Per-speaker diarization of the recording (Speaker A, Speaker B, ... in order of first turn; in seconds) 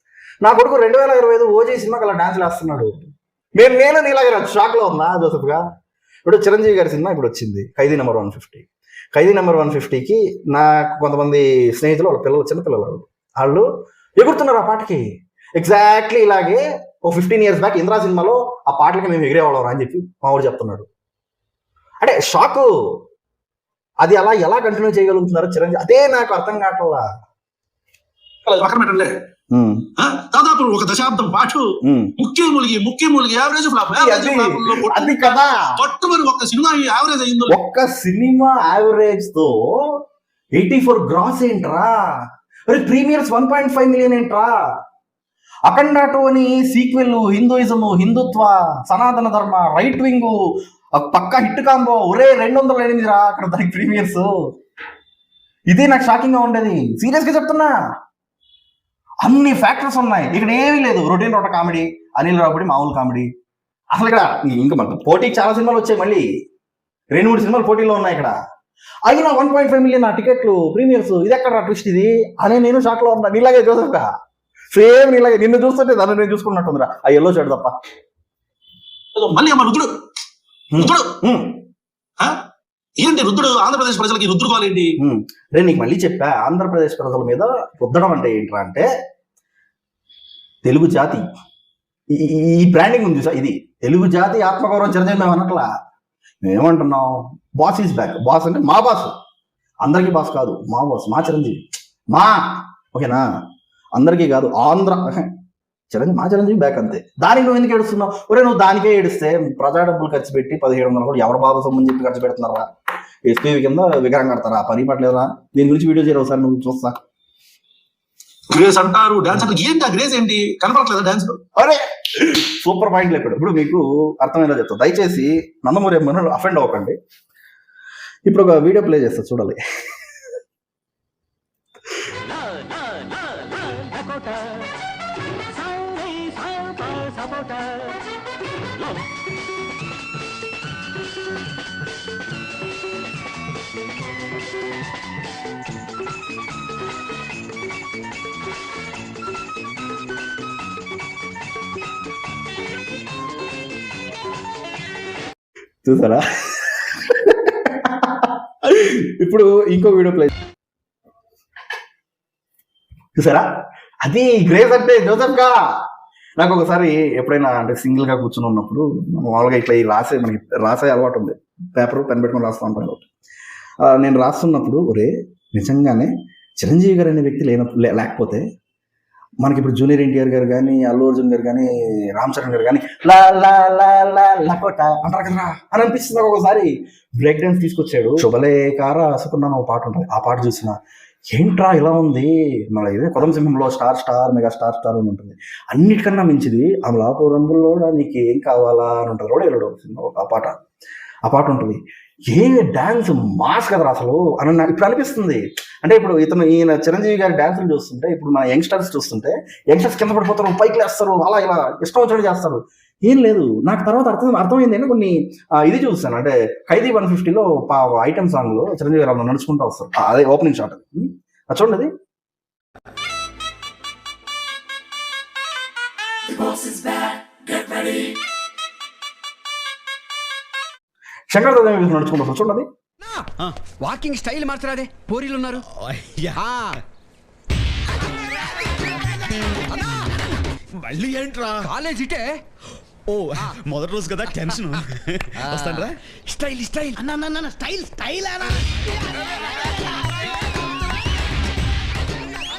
Speaker A: 0.4-5.6, 6.3-20.9, 22.0-23.0, 24.0-27.1, 29.5-29.9, 31.8-32.1, 34.0-35.8, 37.5-40.0, 40.6-42.1, 42.7-44.5, 45.7-50.4, 51.0-54.5, 55.7-57.8, 59.2-63.3, 63.9-66.3, 67.1-68.4, 69.1-74.1, 74.7-77.8, 80.7-81.6, 85.0-88.9, 90.7-91.3, 92.1-95.7, 96.4-99.2, 99.8-103.3, 104.0-105.3, 105.9-112.7, 113.2-117.0, 121.6-127.0, 128.3-129.6, 155.8-160.3, 163.2-163.5, 164.0-165.8, 166.4-173.1, 173.8-178.4, 179.4-190.8, 191.3-200.6, 201.2-221.9, 231.3-232.7
Speaker B: 28.5-29.1, 30.0-31.7, 32.2-35.2, 35.8-37.6, 79.2-79.9, 80.8-81.2, 83.0-84.9, 118.5-121.4
Speaker C: 132.3-134.7, 135.5-137.9, 226.3-228.1, 233.0-235.7, 236.3-236.8, 238.1-240.3, 241.6-242.4, 245.3-248.7, 249.3-250.3
Speaker D: 235.7-236.4, 240.8-241.7, 243.1-246.0